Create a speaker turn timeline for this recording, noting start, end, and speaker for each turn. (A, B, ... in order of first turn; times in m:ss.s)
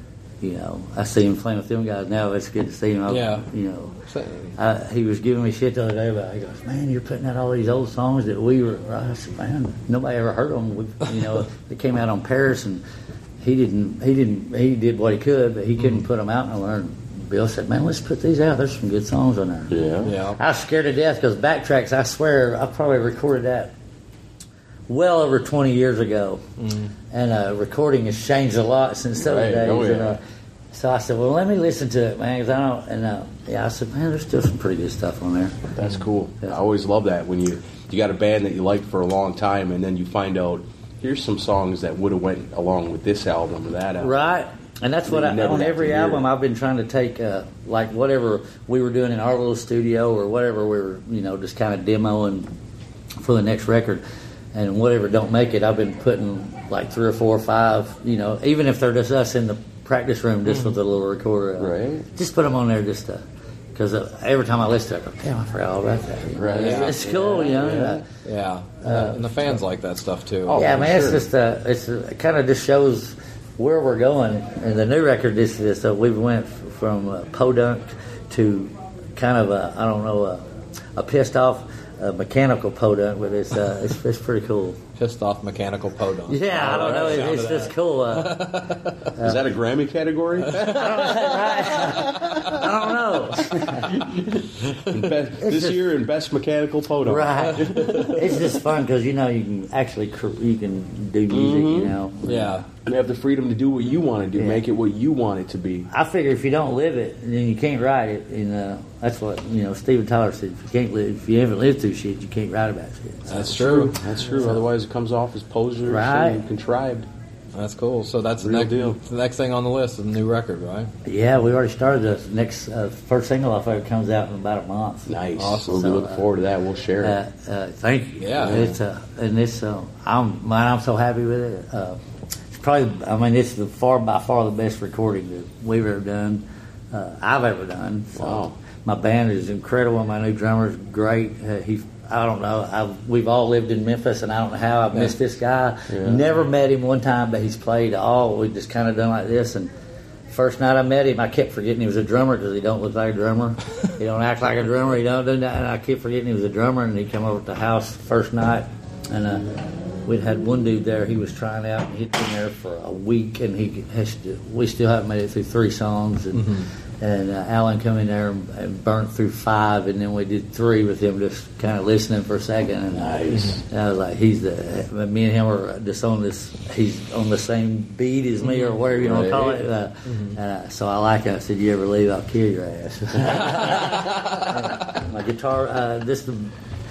0:00.4-0:04.0 A
0:03.1-0:04.6 B
0:04.6-0:12.8 A
0:13.4-0:19.8 A
0:15.8-0:16.1 B
0:19.7-0:20.1 C
0:20.0-0:20.4 B
0:20.4-0:23.7 A
0:24.9-0:26.4 A
0:26.6-0:26.9 B
0:27.1-0:30.2 A
0:29.2-0:30.2 C
0:30.7-0:35.7 A
0:35.7-0:44.3 C
0:44.0-0:52.5 A
0:45.1-0:46.2 C
0:53.2-0:54.0 A
0:54.5-1:03.2 A
1:00.4-1:00.8 B
1:01.6-1:02.1 C
1:03.8-1:08.0 A
1:06.3-1:08.0 C
1:06.5-1:07.0 B
1:08.2-1:10.7 B
1:08.8-1:09.6 A
1:10.5-1:11.3 C
1:10.5-1:20.4 A
1:21.0-1:24.8 A
1:25.0-1:29.1 B
1:26.3-1:28.6 A
1:29.2-1:29.4 A
1:29.2-1:30.6 C
1:30.5-1:32.7 B
1:30.6-1:33.9 A
1:33.8-1:38.2 C
1:35.4-1:35.9 A
1:37.0-1:42.7 A
1:37.5-1:38.2 B
1:41.3-1:42.0 C
1:42.2-1:42.7 B
1:42.9-1:45.9 C
1:44.4-1:44.6 A
1:45.9-1:54.6 A
1:53.3-1:54.0 B
1:53.4-1:57.1 C
1:55.8-1:56.4 A
1:57.5-2:00.9 B
1:58.4-1:59.0 C
2:01.0-2:05.1 A
2:05.1-2:07.2 C
2:05.4-2:05.9 B
2:05.7-2:06.2 A
2:07.0-2:12.0 A
2:08.2-2:08.8 B
2:08.4-2:08.8 C
2:12.5-2:29.7 A
2:18.1-2:18.6 C
2:25.9-2:26.2 C
2:30.3-2:39.5 A
2:40.0-3:06.6 A
2:46.3-2:46.7 B
2:52.9-2:53.6 C
2:58.4-2:58.8 B
2:59.0-2:59.6 C
3:00.0-3:00.4 B
3:03.6-3:04.7 B